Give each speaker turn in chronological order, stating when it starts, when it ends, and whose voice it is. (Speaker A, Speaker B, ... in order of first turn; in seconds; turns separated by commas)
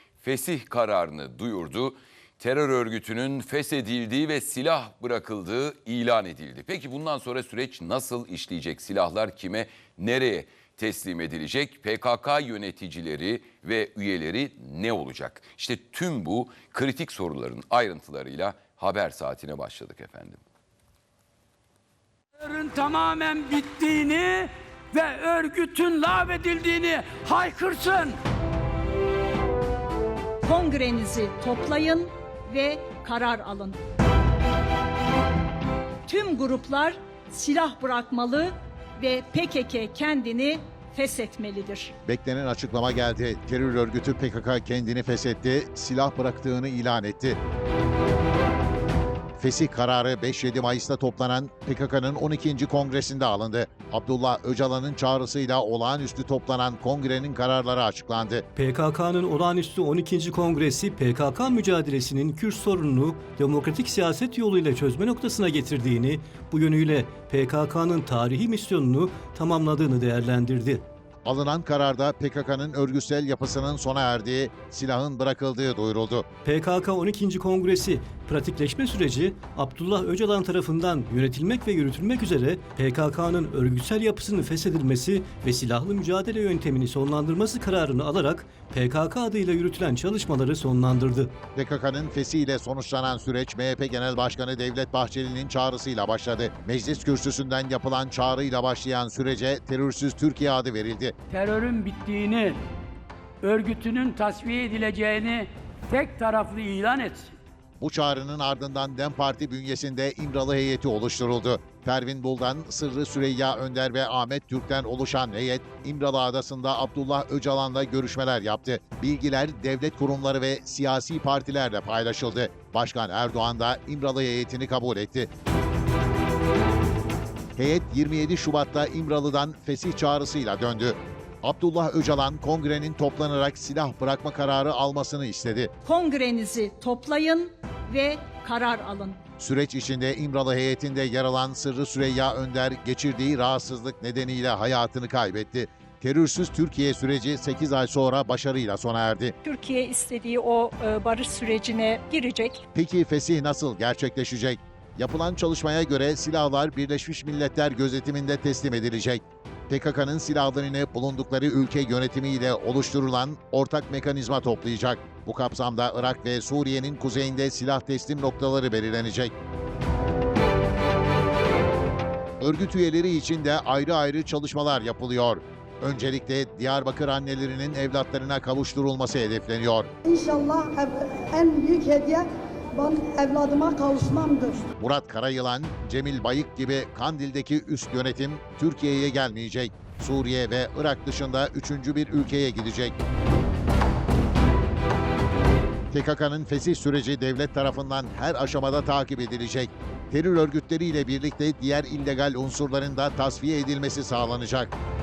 Speaker A: 0.2-20.4, Speaker B: 22.4-28.2, Speaker C: 30.4-31.8, Speaker D: 31.1-33.8, Speaker D: 36.1-41.9, Speaker C: 36.1-36.6, Speaker E: 42.0-47.4, Speaker E: 49.4-58.5, Speaker F: 58.6-70.8, Speaker E: 71.2-76.2, Speaker F: 76.5-91.3, Speaker E: 91.5-101.1, Speaker B: 101.3-102.6, Speaker B: 103.4-107.3, Speaker E: 107.8-125.3, Speaker E: 127.6-135.7, Speaker D: 135.8-139.2, Speaker E: 139.4-149.3, Speaker C: 149.4-152.6, Speaker E: 152.7-169.3, Speaker E: 172.4-179.9, Speaker G: 180.0-184.7, Speaker E: 184.8-192.9, Speaker E: 195.9-204.7